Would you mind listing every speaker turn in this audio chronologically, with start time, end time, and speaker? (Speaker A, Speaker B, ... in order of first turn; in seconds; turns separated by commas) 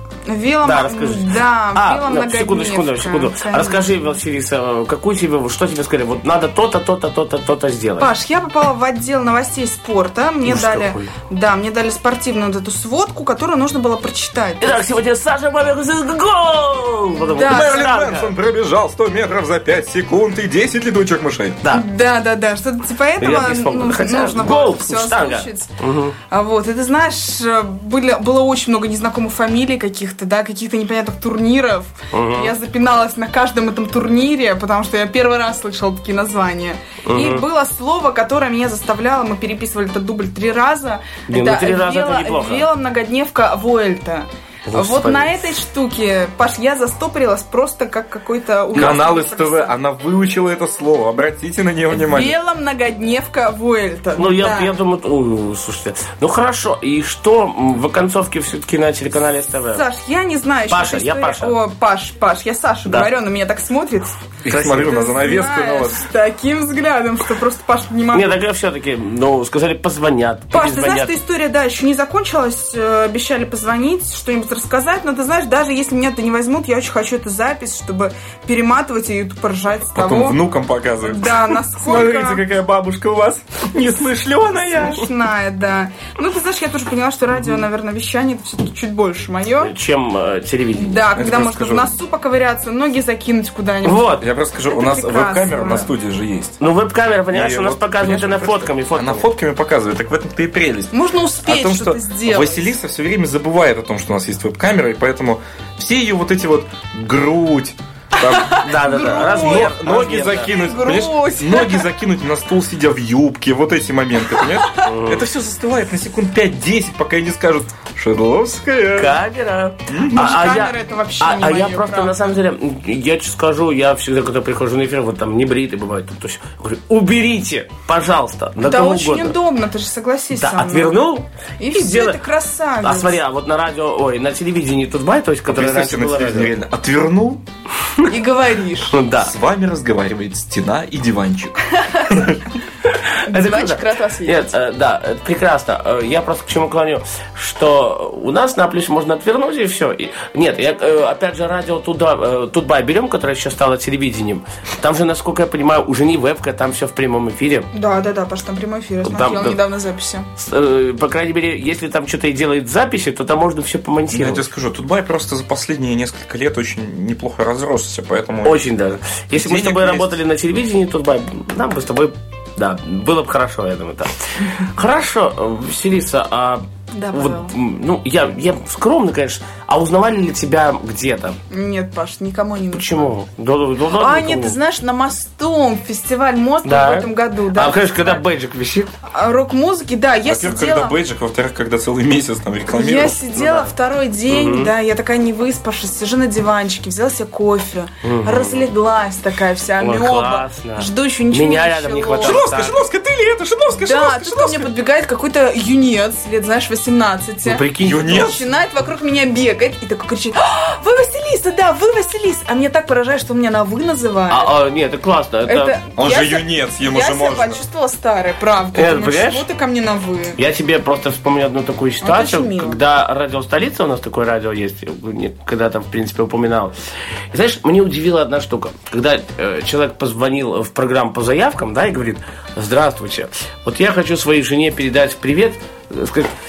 Speaker A: 0.3-4.0, Speaker B: 0.6-8.1, Speaker A: 8.0-14.9, Speaker B: 10.4-11.1, Speaker B: 14.6-18.3, Speaker A: 17.2-17.9, Speaker C: 17.4-21.6, Speaker A: 21.7-25.7, Speaker B: 23.2-26.2, Speaker A: 26.3-49.8, Speaker B: 32.1-32.5, Speaker B: 37.0-37.4, Speaker B: 41.3-42.6, Speaker B: 44.7-45.4, Speaker C: 48.8-52.3, Speaker A: 51.9-54.7, Speaker B: 54.1-59.8, Speaker A: 59.7-68.3, Speaker B: 60.7-61.5, Speaker C: 64.5-66.1, Speaker B: 68.1-71.1, Speaker A: 70.5-80.4, Speaker C: 79.9-85.0, Speaker A: 81.0-82.4, Speaker A: 84.7-89.7, Speaker B: 89.6-91.0, Speaker A: 90.8-94.1, Speaker C: 91.1-91.9, Speaker B: 93.8-94.2, Speaker C: 94.2-96.6, Speaker A: 94.7-95.9, Speaker B: 96.6-99.3, Speaker C: 97.3-108.6, Speaker A: 100.9-102.7, Speaker A: 108.2-111.9, Speaker B: 108.4-110.5, Speaker C: 109.1-119.2, Speaker B: 114.8-115.2, Speaker B: 119.0-129.3, Speaker C: 119.9-120.3, Speaker A: 120.1-122.4, Speaker A: 128.6-133.2, Speaker B: 130.3-132.2, Speaker B: 132.8-136.5, Speaker C: 135.5-137.4, Speaker A: 138.0-138.9, Speaker B: 138.9-139.3, Speaker C: 139.1-142.4, Speaker B: 142.9-157.7, Speaker A: 143.2-144.5, Speaker A: 157.7-160.3, Speaker B: 159.0-159.6, Speaker B: 160.4-164.5, Speaker C: 164.1-168.7, Speaker B: 168.4-181.4, Speaker C: 169.3-170.2, Speaker A: 176.9-177.5, Speaker A: 181.5-183.1, Speaker B: 182.7-184.6, Speaker A: 184.0-188.2, Speaker B: 186.6-188.9, Speaker A: 189.0-191.0, Speaker C: 190.2-193.2, Speaker A: 192.7-202.4, Speaker B: 193.3-193.7, Speaker B: 194.3-194.7, Speaker B: 198.0-198.7, Speaker B: 199.8-202.8, Speaker C: 202.2-204.7, Speaker A: 203.8-214.5, Speaker B: 207.4-208.3, Speaker C: 207.8-208.4, Speaker B: 214.3-215.8, Speaker A: 215.4-220.4, Speaker C: 215.9-217.6, Speaker B: 218.7-219.4, Speaker B: 220.4-226.7, Speaker A: 222.0-222.8, Speaker B: 227.3-236.3